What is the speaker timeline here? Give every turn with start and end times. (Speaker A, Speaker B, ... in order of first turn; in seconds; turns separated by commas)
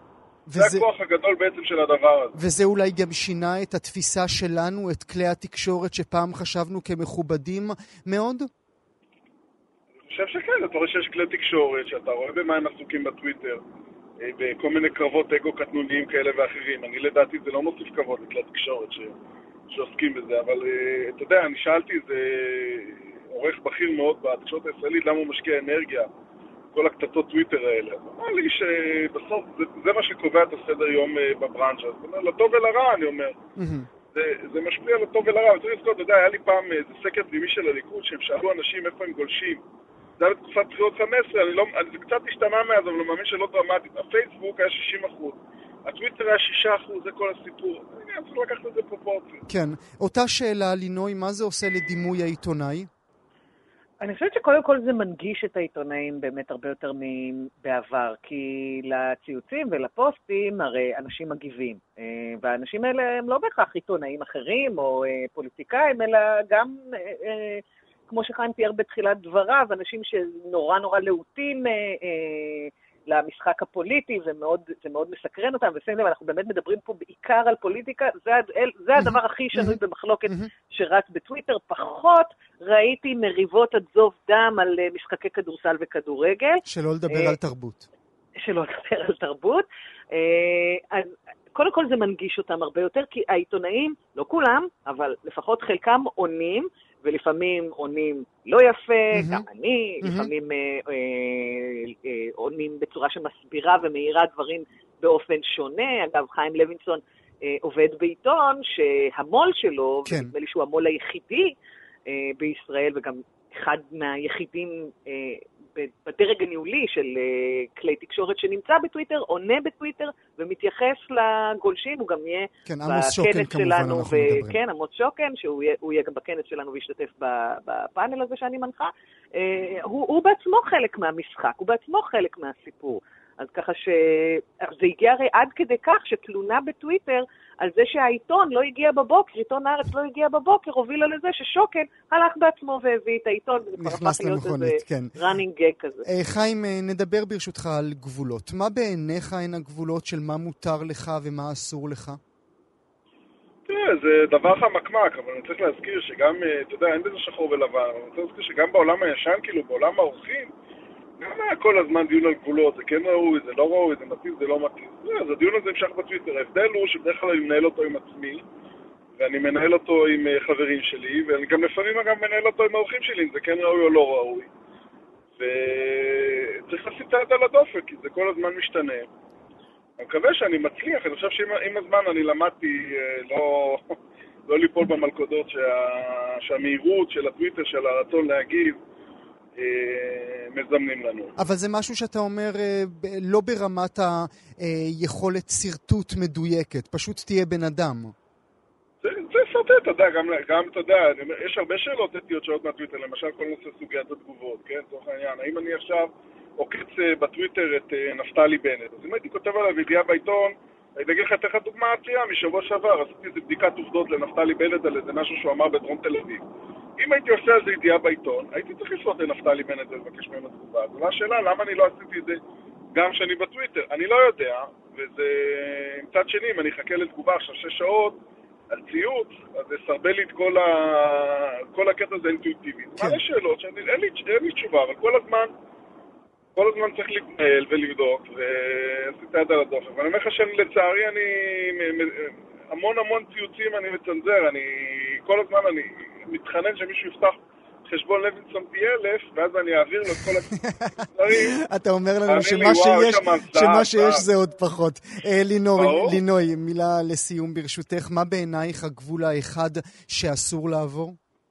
Speaker A: 0.5-0.8, Speaker B: 0.6-2.4, Speaker A: 2.4-8.5, Speaker B: 10.0-13.6, Speaker B: 14.2-19.1, Speaker B: 19.7-26.1, Speaker B: 26.7-33.4, Speaker A: 33.6-33.9, Speaker B: 34.1-39.6, Speaker B: 40.2-49.4, Speaker A: 49.5-52.9, Speaker C: 54.0-87.4, Speaker A: 86.7-87.9, Speaker C: 88.4-111.5, Speaker A: 99.2-99.4, Speaker A: 100.0-100.3, Speaker A: 110.0-110.3, Speaker C: 112.1-146.1, Speaker A: 122.7-124.6, Speaker A: 143.8-145.2, Speaker A: 146.1-152.2, Speaker B: 153.7-160.5, Speaker B: 161.2-168.4, Speaker B: 169.2-174.5, Speaker B: 175.4-179.1, Speaker B: 180.0-188.8, Speaker B: 189.6-191.3, Speaker A: 191.4-198.1, Speaker B: 199.0-216.4, Speaker B: 217.0-222.4, Speaker B: 222.9-228.2, Speaker B: 228.7-235.5, Speaker B: 236.6-250.5, Speaker A: 250.6-261.2, Speaker B: 251.1-251.6, Speaker B: 252.3-254.2, Speaker B: 255.8-256.2